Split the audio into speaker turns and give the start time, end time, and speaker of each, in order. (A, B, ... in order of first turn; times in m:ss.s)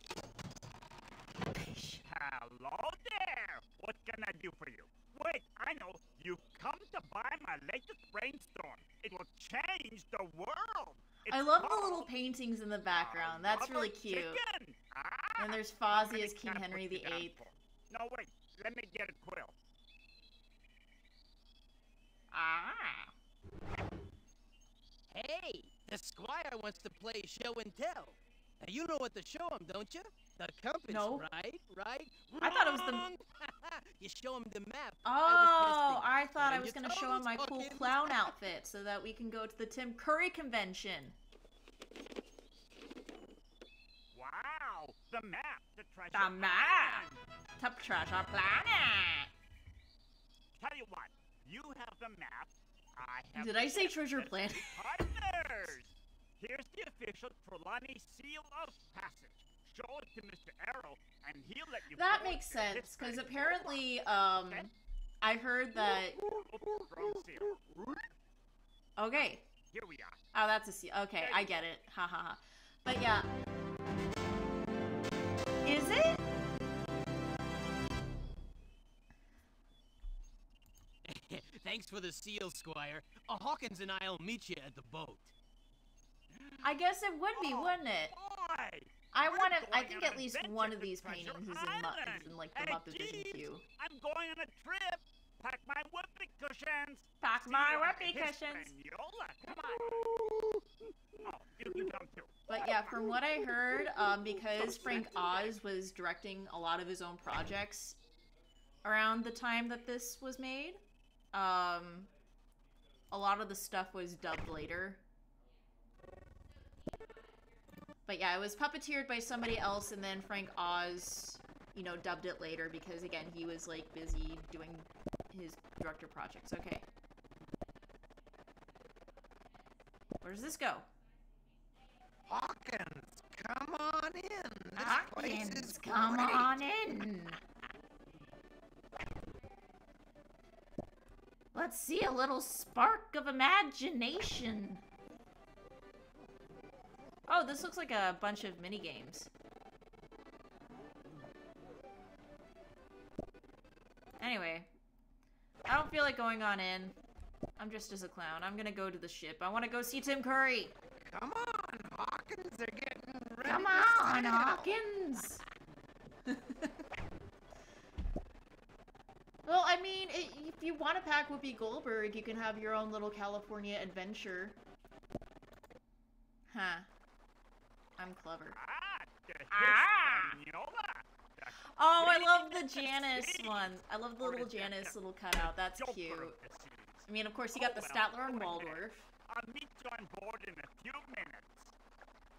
0:01.5-0:02.0 A
0:02.0-0:12.1 B
0:11.3-0:14.4 A
0:12.9-0:19.5 B
0:15.4-0:17.4 A
0:22.3-0:23.1 A
0:25.1-0:38.3 C
0:30.9-0:31.2 A
0:32.4-0:33.0 A
0:35.0-0:41.1 A
0:44.1-0:47.2 B
0:46.1-0:47.0 A
0:47.6-0:49.3 A
0:50.6-1:04.6 B
0:53.4-0:54.8 A
1:02.0-1:06.2 A
1:06.2-1:07.6 B
1:09.0-1:09.4 A
1:09.7-1:10.2 B
1:10.3-1:13.3 A
1:11.2-1:11.5 B
1:15.6-1:16.2 A
1:21.0-1:25.3 C
1:26.6-1:28.1 A
1:27.3-1:40.1 B
1:29.1-1:33.6 A
1:37.2-1:38.7 A
1:39.9-1:40.5 D
1:41.2-1:42.8 B
1:42.5-1:48.0 A
1:44.7-1:45.5 B
1:48.8-1:50.8 A
1:51.3-1:52.1 A
1:53.1-1:55.0 A
1:58.1-2:06.8 A
2:10.2-2:10.8 A
2:12.3-2:16.6 D
2:14.8-2:17.4 A
2:21.5-2:24.8 A
2:27.3-2:29.3 A
2:34.2-2:34.7 A
2:35.7-2:37.0 A
2:37.6-2:40.7 A
2:41.0-2:44.8 D
2:43.4-2:45.4 A
2:46.3-2:46.7 A
2:49.4-2:54.6 A
2:56.5-2:56.9 A
2:58.0-2:58.6 A
2:58.6-3:11.7 B
2:59.5-3:00.4 A
3:01.7-3:06.4 A
3:07.1-3:09.1 A